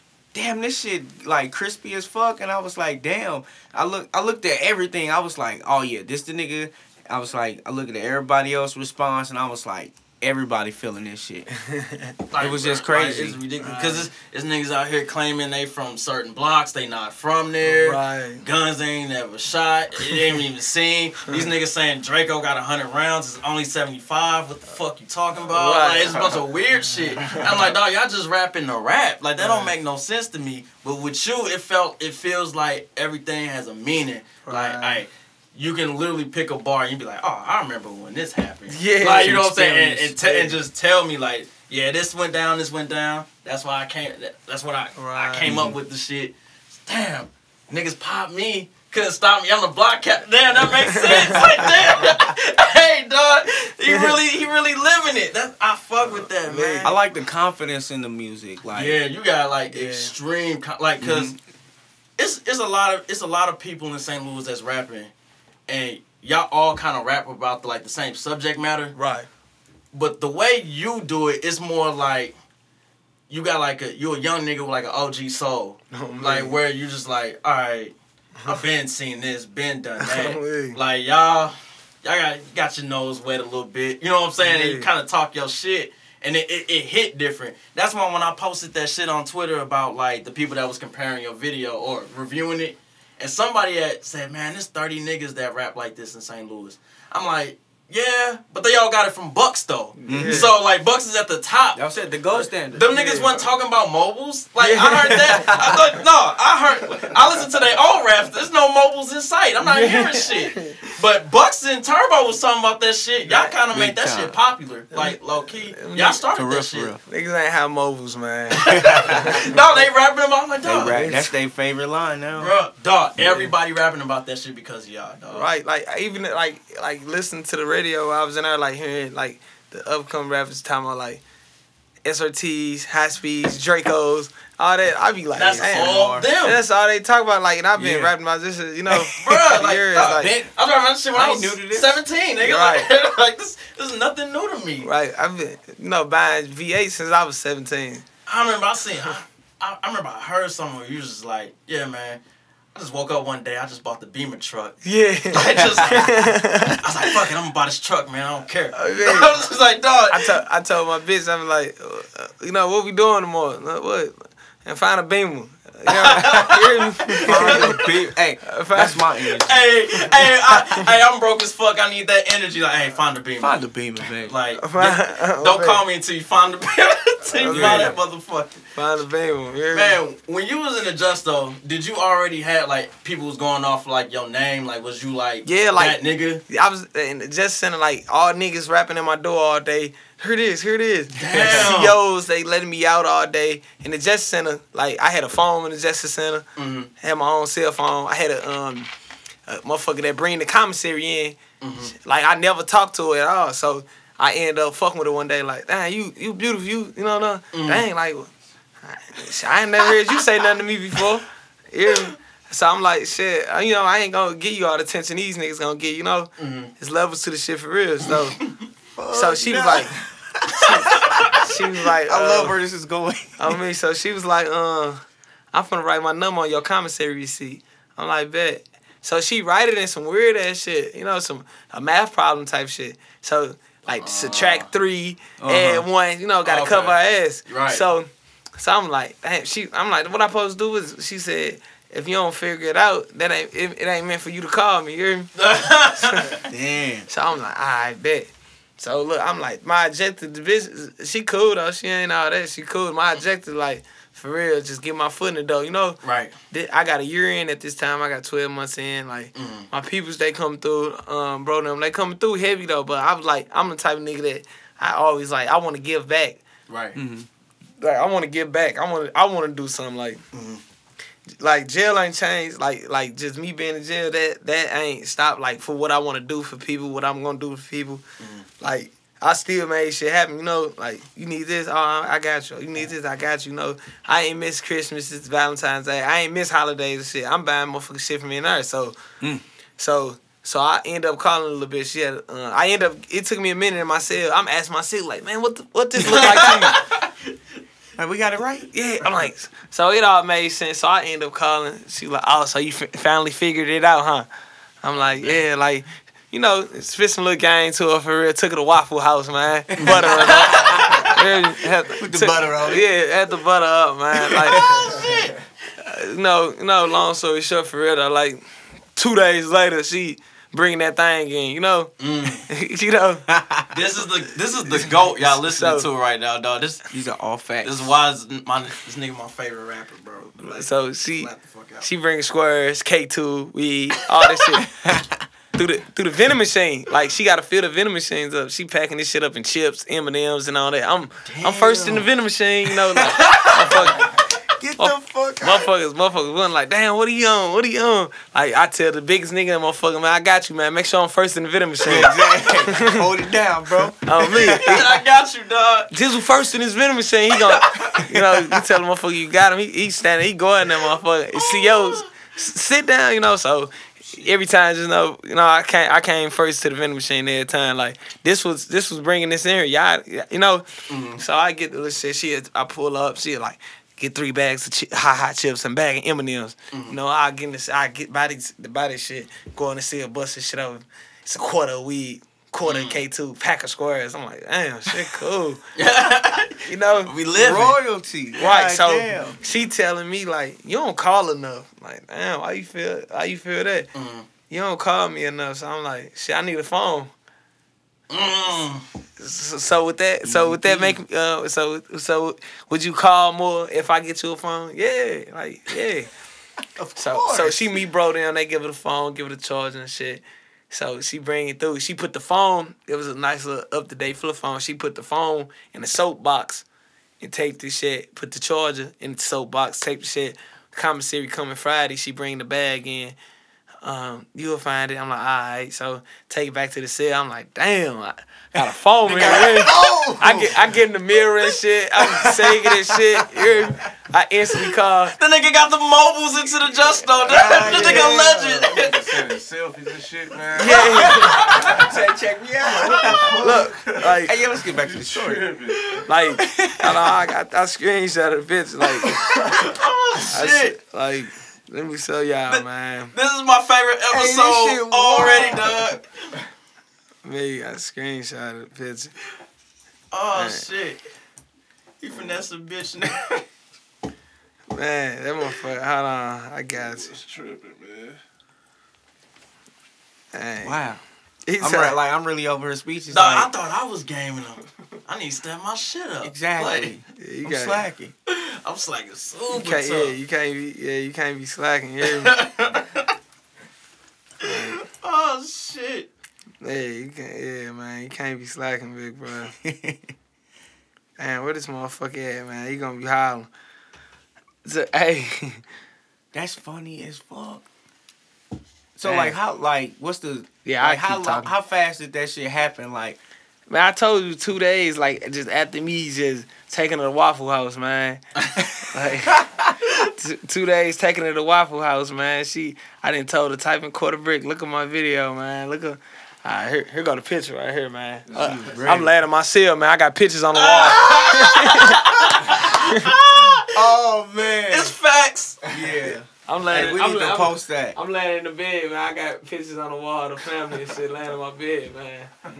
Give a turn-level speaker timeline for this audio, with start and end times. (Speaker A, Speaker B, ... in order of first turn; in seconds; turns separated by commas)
Speaker A: 0.3-11.5, Speaker B: 11.7-12.1, Speaker C: 12.3-57.0, Speaker A: 12.4-13.4, Speaker B: 13.6-14.1, Speaker B: 17.6-18.4, Speaker B: 25.5-26.4, Speaker B: 27.2-27.5, Speaker B: 29.4-29.7, Speaker B: 34.4-35.0, Speaker B: 38.7-40.6, Speaker A: 39.2-39.8, Speaker B: 45.0-45.5, Speaker A: 45.4-45.7, Speaker B: 50.9-51.4, Speaker B: 56.2-56.9, Speaker A: 56.8-59.0, Speaker C: 58.7-61.3, Speaker B: 59.7-60.1, Speaker A: 61.0-61.4, Speaker C: 62.2-65.1, Speaker C: 65.7-68.9, Speaker B: 68.9-69.3, Speaker C: 69.9-72.3, Speaker C: 73.3-77.9, Speaker B: 75.9-76.6, Speaker C: 78.4-101.8, Speaker B: 80.0-80.8, Speaker B: 84.4-84.9, Speaker B: 100.0-100.5, Speaker A: 100.1-100.5, Speaker A: 101.7-102.9, Speaker C: 102.4-116.9, Speaker B: 102.9-103.3, Speaker B: 104.6-105.8, Speaker B: 109.6-110.7, Speaker B: 113.3-113.5, Speaker A: 113.7-114.3, Speaker B: 114.9-116.2, Speaker A: 116.3-117.0, Speaker B: 117.0-119.6, Speaker C: 118.6-121.0, Speaker A: 118.7-119.3, Speaker A: 120.6-122.5, Speaker B: 120.9-121.2, Speaker C: 122.3-125.5, Speaker A: 123.2-123.5, Speaker B: 125.3-131.2, Speaker B: 132.0-140.3, Speaker C: 135.3-136.6, Speaker A: 135.7-136.2, Speaker A: 137.8-138.1, Speaker C: 139.1-144.9, Speaker A: 141.1-142.0, Speaker B: 142.4-142.9, Speaker B: 144.8-148.0, Speaker C: 148.3-152.2, Speaker C: 152.7-156.1, Speaker B: 154.8-156.8, Speaker C: 156.7-160.4, Speaker B: 158.7-159.3, Speaker B: 160.1-167.8, Speaker C: 165.9-167.9, Speaker A: 167.2-169.7, Speaker B: 168.4-169.0, Speaker C: 169.4-173.6, Speaker B: 170.0-170.7, Speaker A: 173.4-174.3, Speaker C: 174.2-178.6, Speaker B: 174.6-175.8, Speaker B: 177.4-177.9, Speaker A: 177.4-178.0, Speaker B: 178.7-180.0, Speaker C: 179.7-186.4, Speaker B: 185.4-196.5, Speaker C: 191.2-191.9, Speaker C: 196.6-196.9, Speaker B: 197.0-198.9, Speaker B: 199.5-208.3, Speaker C: 201.6-201.9, Speaker C: 207.5-207.8, Speaker B: 208.8-218.4, Speaker C: 216.4-216.7, Speaker A: 218.9-223.6, Speaker B: 219.1-219.9, Speaker C: 220.7-221.3, Speaker B: 221.4-222.6, Speaker B: 223.4-225.0, Speaker B: 225.5-245.3, Speaker C: 233.9-234.7, Speaker A: 235.4-235.8, Speaker C: 236.4-237.8, Speaker C: 245.4-246.4, Speaker A: 246.5-247.1, Speaker B: 247.1-266.4, Speaker C: 256.0-256.3, Speaker C: 259.4-259.7, Speaker C: 266.7-267.0, Speaker A: 266.9-267.3, Speaker B: 267.8-270.2, Speaker C: 270.3-270.6, Speaker B: 271.4-278.0, Speaker C: 278.2-278.4, Speaker B: 278.6-288.9, Speaker B: 289.8-296.8, Speaker A: 296.1-296.8, Speaker C: 296.2-297.0, Speaker A: 298.0-298.7, Speaker B: 298.7-304.3, Speaker B: 304.8-314.6, Speaker A: 309.7-311.0, Speaker C: 309.8-311.1, Speaker A: 311.9-312.9, Speaker C: 314.5-315.4, Speaker B: 315.8-318.4, Speaker B: 318.9-321.9, Speaker C: 322.0-322.4, Speaker B: 322.4-323.2, Speaker A: 323.4-323.6, Speaker C: 323.7-326.8, Speaker B: 325.2-325.9, Speaker A: 326.9-327.9, Speaker C: 327.6-331.9, Speaker B: 330.4-331.3, Speaker B: 331.8-334.7, Speaker A: 334.7-335.2, Speaker B: 335.5-344.1, Speaker C: 341.2-342.0, Speaker C: 343.0-344.1, Speaker A: 344.6-345.7, Speaker B: 344.8-353.0, Speaker A: 351.8-354.8, Speaker B: 354.0-354.9, Speaker C: 354.6-355.9, Speaker B: 355.9-385.6, Speaker C: 357.4-358.0, Speaker C: 361.3-362.1, Speaker C: 370.9-371.2, Speaker C: 382.6-383.0, Speaker C: 385.8-387.8, Speaker B: 386.6-387.1, Speaker A: 387.3-389.4, Speaker B: 388.4-393.9, Speaker C: 393.9-394.3, Speaker B: 394.5-397.1, Speaker C: 398.1-398.8, Speaker B: 399.2-406.1, Speaker A: 400.2-401.0, Speaker A: 406.6-407.8, Speaker B: 407.0-416.6, Speaker B: 417.2-423.1, Speaker B: 423.8-435.1, Speaker A: 428.6-430.7, Speaker A: 432.0-433.5, Speaker C: 435.1-439.1, Speaker A: 437.2-438.7, Speaker D: 437.5-441.9, Speaker B: 440.5-441.4, Speaker C: 441.0-441.9, Speaker A: 441.7-443.7, Speaker D: 442.6-445.9, Speaker B: 443.3-444.3, Speaker A: 444.2-445.5, Speaker B: 446.1-449.2, Speaker A: 446.3-447.1, Speaker C: 449.5-450.8, Speaker B: 450.3-453.1, Speaker C: 452.5-456.1, Speaker A: 454.1-455.9, Speaker B: 457.2-459.1, Speaker C: 460.1-461.0, Speaker B: 460.4-460.6, Speaker C: 462.0-463.4, Speaker B: 464.7-467.1, Speaker D: 466.7-468.2, Speaker B: 470.3-470.8, Speaker A: 470.6-471.0, Speaker B: 471.5-472.0, Speaker A: 471.6-473.5, Speaker C: 473.1-476.9, Speaker A: 476.2-478.1, Speaker B: 477.2-477.8, Speaker C: 478.3-480.1, Speaker B: 479.5-482.4, Speaker C: 482.0-483.1, Speaker B: 484.4-484.7, Speaker C: 484.4-486.1, Speaker B: 486.6-489.5, Speaker A: 489.6-490.1, Speaker B: 491.2-493.5, Speaker B: 494.6-495.6, Speaker A: 496.3-497.7, Speaker A: 498.9-503.2, Speaker B: 499.0-499.3, Speaker B: 500.6-501.5, Speaker B: 503.7-508.2, Speaker B: 508.9-509.4, Speaker A: 509.2-509.7, Speaker B: 510.0-522.0, Speaker D: 518.3-519.0, Speaker A: 518.3-519.1, Speaker C: 520.5-523.9, Speaker A: 521.1-521.4, Speaker A: 523.3-524.9, Speaker C: 524.7-525.6, Speaker A: 525.7-528.0, Speaker B: 526.5-532.3